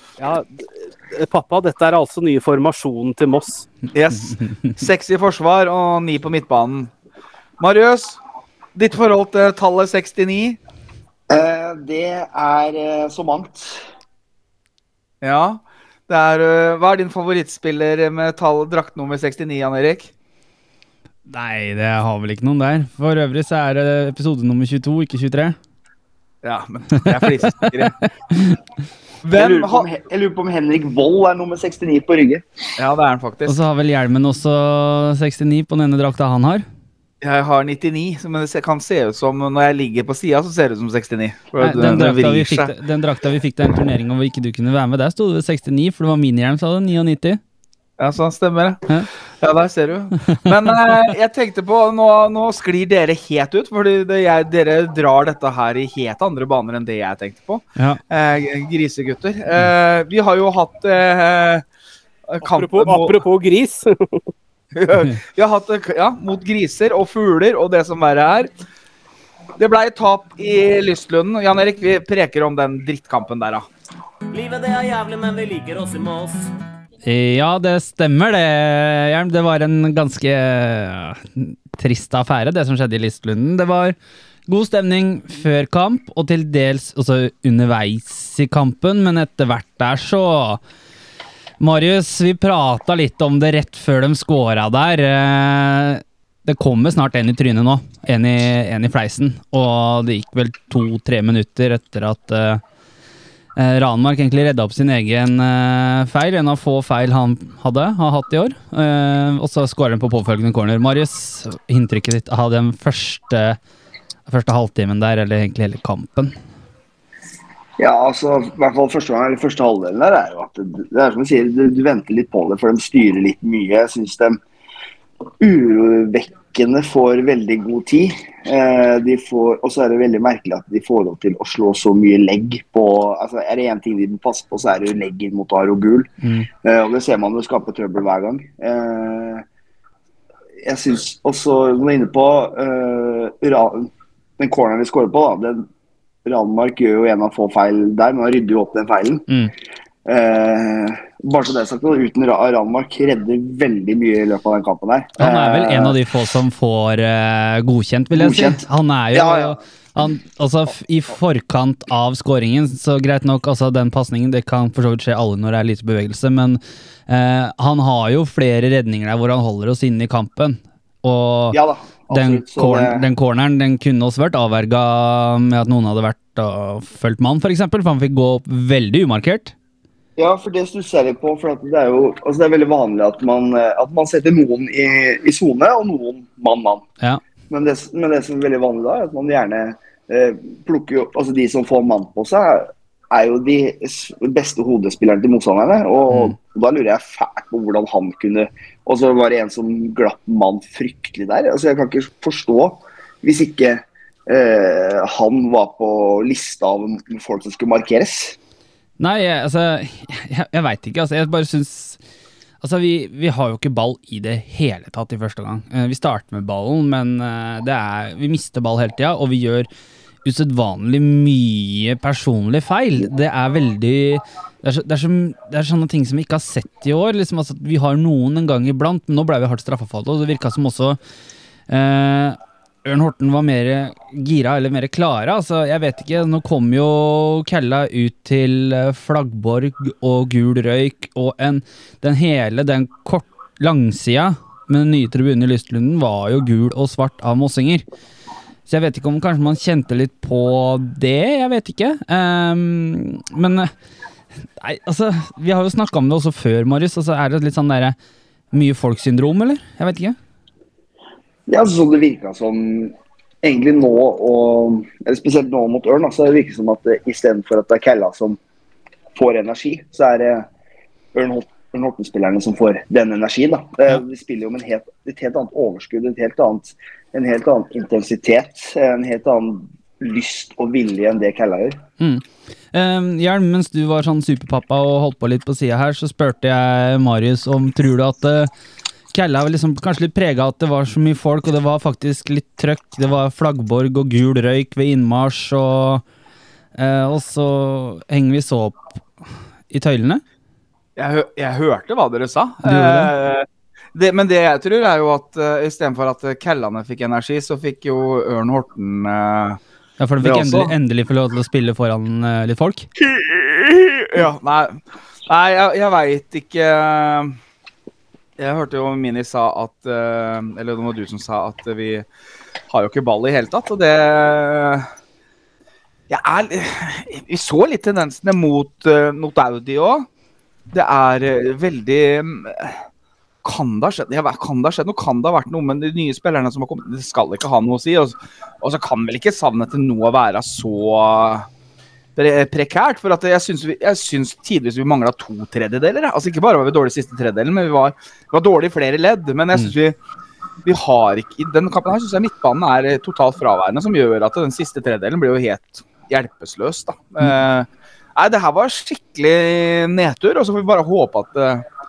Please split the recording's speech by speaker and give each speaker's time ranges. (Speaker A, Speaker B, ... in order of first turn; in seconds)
Speaker A: 0.2-3.7, 62.4-64.3
Speaker B: 3.9-6.9, 7.6-8.2, 8.7-10.6, 15.2-20.1, 26.4-27.9, 29.2-29.9, 32.8-33.5, 37.2-42.7, 48.0-61.6, 62.3-63.2, 64.7-68.5, 69.6-73.7, 301.0-309.6, 310.2-310.7, 313.0-317.4, 318.4-322.0, 322.7-324.9, 326.1-330.1, 330.7-332.8, 333.4-341.5, 342.1-349.9, 350.6-361.6
Speaker C: 11.3-13.8, 29.3-32.5, 117.8-124.4, 125.4-136.1, 136.6-139.4, 140.6-145.7, 146.2-149.2, 150.0-156.0, 158.1-159.6, 171.5-173.1, 180.2-186.8, 187.5-208.4, 261.5-268.4, 269.1-270.5, 271.1-281.8
Speaker D: 21.3-25.6, 27.0-28.6, 33.5-36.6, 41.6-47.4, 77.0-84.0, 84.5-90.6, 91.6-102.6, 103.5-113.6, 114.3-116.3, 136.2-136.5, 155.2-171.6, 172.1-179.5, 209.0-212.0, 212.6-219.7, 220.2-231.0, 231.7-247.8, 248.7-253.7, 254.6-257.9, 258.5-260.2, 282.0-288.5, 289.1-296.0, 296.8-298.8, 299.7-300.2, 302.6-303.1, 310.0-312.9
Speaker E: 74.3-76.5